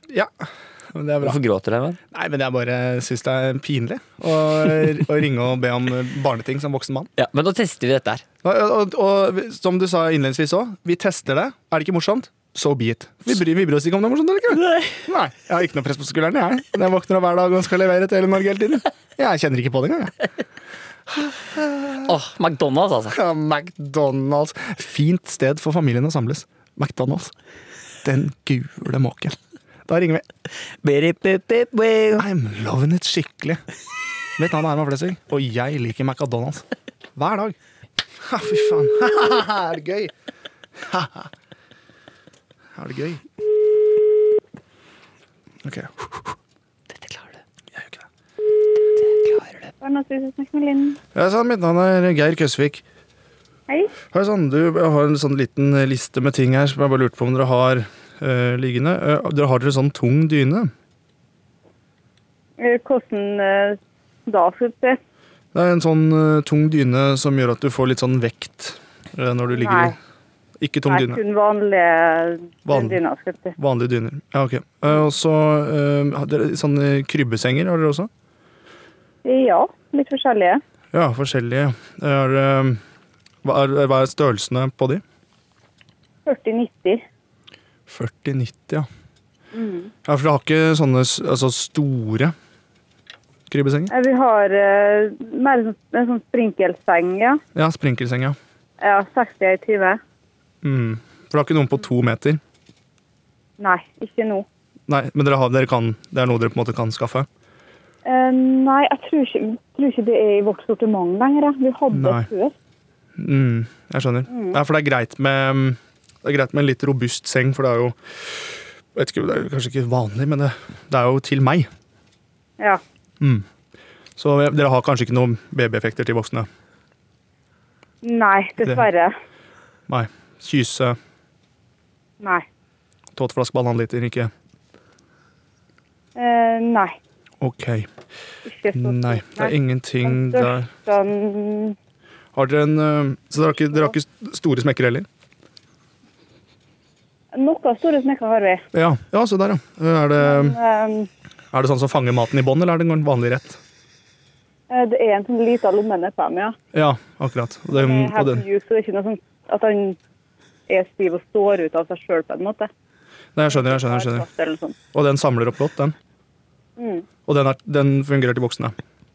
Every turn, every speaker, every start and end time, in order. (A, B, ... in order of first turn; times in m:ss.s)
0:00.1-0:01.4 A
0:01.2-0:02.0 B
0:02.1-0:07.1 A
0:07.2-0:08.2 B
0:08.4-0:20.1 A
0:14.6-0:15.0 B
0:21.1-0:22.1 A
0:22.0-0:23.2 B
0:23.1-0:27.3 A
0:28.0-0:29.4 A
0:29.9-0:30.2 A
0:30.8-0:32.2 B
0:32.2-0:33.6 A
0:34.4-0:36.6 A
0:37.2-0:37.6 A
0:38.2-0:40.1 A
0:40.8-0:41.3 A
0:42.8-0:43.2 A
0:45.6-0:46.3 A
0:46.9-0:47.4 B
0:47.7-0:48.0 A
0:49.0-0:49.7 B
0:49.8-0:51.0 C
0:51.2-0:52.8 A
0:54.1-1:00.7 A
1:02.6-1:05.0 C
1:05.5-1:10.0 A
1:09.6-1:10.0 C
1:10.6-1:11.2 A
1:10.9-1:13.6 C
1:12.7-1:13.0 A
1:13.6-1:18.1 A
1:19.2-1:20.6 C
1:20.9-1:22.8 A
1:23.4-1:25.0 A
1:26.3-1:27.0 C
1:27.9-1:28.9 A
1:29.5-1:29.9 C
1:30.1-1:32.3 A
1:33.5-1:33.9 A
1:33.9-1:37.4 C
1:37.6-1:38.4 A
1:38.8-1:40.0 C
1:40.6-1:42.4 A
1:43.6-1:44.5 C
1:44.9-1:47.3 A
1:48.0-1:52.5 C
1:51.9-1:52.3 A
1:53.2-2:01.7 A
1:54.3-1:54.6 C
2:03.2-2:03.5 A
2:04.2-2:06.5 A
2:08.0-2:09.1 C
2:09.9-2:11.0 A
2:12.2-2:12.5 C
2:13.2-2:14.3 A
2:16.2-2:17.0 C
2:17.4-2:17.9 A
2:18.5-2:19.5 C
2:18.8-2:20.7 A
2:20.0-2:21.8 C
2:22.4-2:25.1 A
2:27.3-2:28.6 C
2:28.7-2:30.6 A
2:30.2-2:31.1 C
2:31.5-2:33.6 A
2:34.7-2:36.6 C
2:36.7-2:38.4 A
2:37.7-2:40.0 C
2:40.7-2:42.7 C
2:43.4-2:44.3 A
2:43.5-2:44.8 C
2:44.9-2:46.0 A
2:46.8-2:47.1 C
2:47.3-2:48.8 A